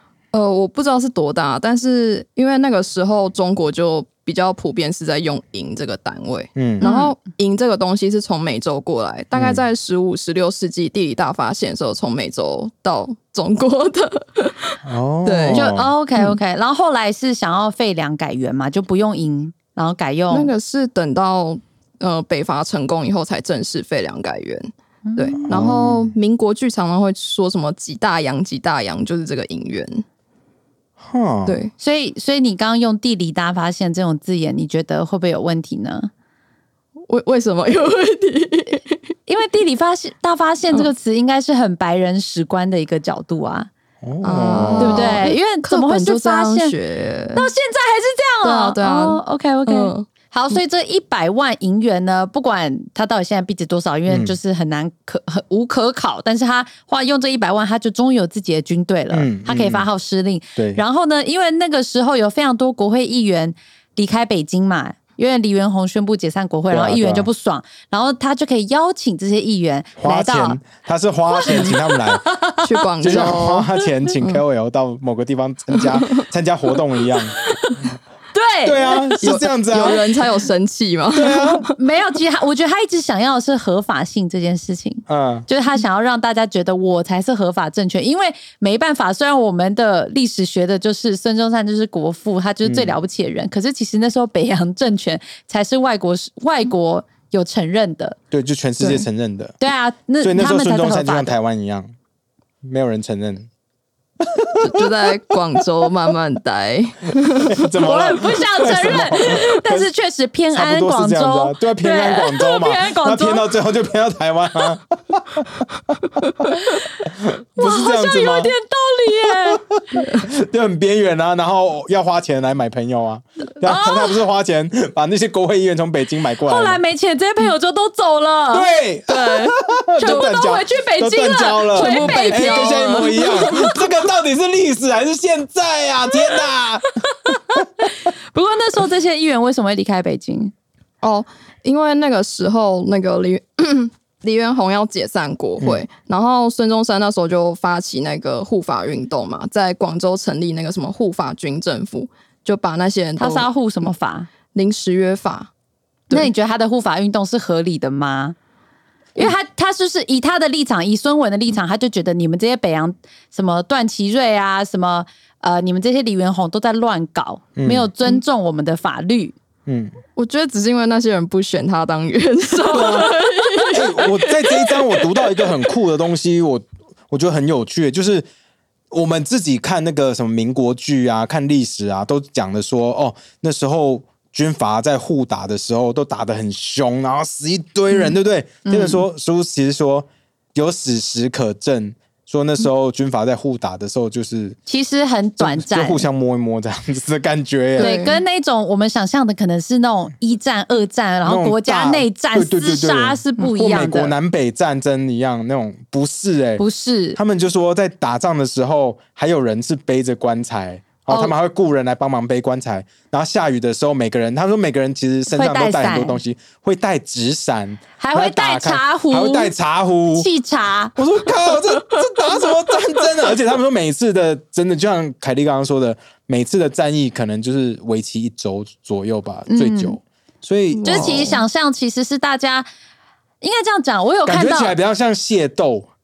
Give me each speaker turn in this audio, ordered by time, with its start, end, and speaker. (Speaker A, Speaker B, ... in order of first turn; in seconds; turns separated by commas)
Speaker A: 0.3-15.6, Speaker B: 6.5-6.8, Speaker C: 6.8-7.2, Speaker B: 9.3-9.6, Speaker B: 14.8-15.9, Speaker C: 15.5-20.5, Speaker A: 20.3-30.0, Speaker C: 25.1-25.5, Speaker B: 25.5-26.1, Speaker B: 31.0-31.6, Speaker A: 31.4-31.7, Speaker C: 31.8-36.1, Speaker A: 37.1-39.0, Speaker C: 39.3-43.7, Speaker B: 44.0-45.2, Speaker A: 44.2-47.5, Speaker C: 44.8-46.7, Speaker C: 47.4-70.6, Speaker A: 48.4-50.6, Speaker B: 54.1-54.4, Speaker B: 59.1-59.9, Speaker B: 60.5-60.8, Speaker B: 66.7-67.3, Speaker B: 70.0-72.3, Speaker C: 71.3-72.8, Speaker A: 72.6-73.7, Speaker B: 73.0-77.3, Speaker A: 75.9-76.2, Speaker C: 77.4-77.8, Speaker C: 78.3-79.3, Speaker B: 78.6-80.1, Speaker A: 79.2-81.7, Speaker B: 81.1-81.6, Speaker C: 81.6-98.2, Speaker B: 85.1-85.5, Speaker B: 92.6-93.0, Speaker B: 98.3-99.6, Speaker C: 99.6-101.3, Speaker B: 100.2-101.9, Speaker B: 102.6-103.5, Speaker B: 104.2-104.9, Speaker A: 104.6-107.7, Speaker B: 107.4-109.9, Speaker C: 107.8-113.4, Speaker B: 110.5-115.7, Speaker C: 116.5-116.8, Speaker B: 117.0-118.5, Speaker C: 117.6-119.6, Speaker B: 119.1-126.8, Speaker A: 119.9-120.2, Speaker C: 123.6-124.2, Speaker C: 126.5-128.7, Speaker B: 128.5-137.6, Speaker A: 129.1-130.3, Speaker C: 130.0-132.8, Speaker A: 131.7-133.8, Speaker C: 137.2-140.5, Speaker A: 141.0-153.5, Speaker C: 153.2-154.3, Speaker A: 154.5-155.5, Speaker C: 156.1-158.3, Speaker C: 159.2-169.3, Speaker B: 167.6-167.9, Speaker B: 169.7-170.0, Speaker A: 170.2-175.6, Speaker B: 172.7-178.2, Speaker C: 173.4-173.7, Speaker B: 178.9-194.6, Speaker C: 188.6-189.0, Speaker C: 194.7-196.1, Speaker B: 195.4-197.9, Speaker A: 197.8-198.2, Speaker C: 197.8-204.1, Speaker B: 201.2-206.6, Speaker C: 206.6-207.2, Speaker B: 207.2-220.3, Speaker C: 211.1-211.3, Speaker C: 215.3-216.2, Speaker C: 218.0-219.5, Speaker C: 220.1-220.9, Speaker B: 220.9-231.3, Speaker A: 221.6-223.1, Speaker C: 229.5-230.0, Speaker A: 230.7-231.4, Speaker C: 230.8-232.7, Speaker C: 233.4-234.7, Speaker B: 234.2-235.9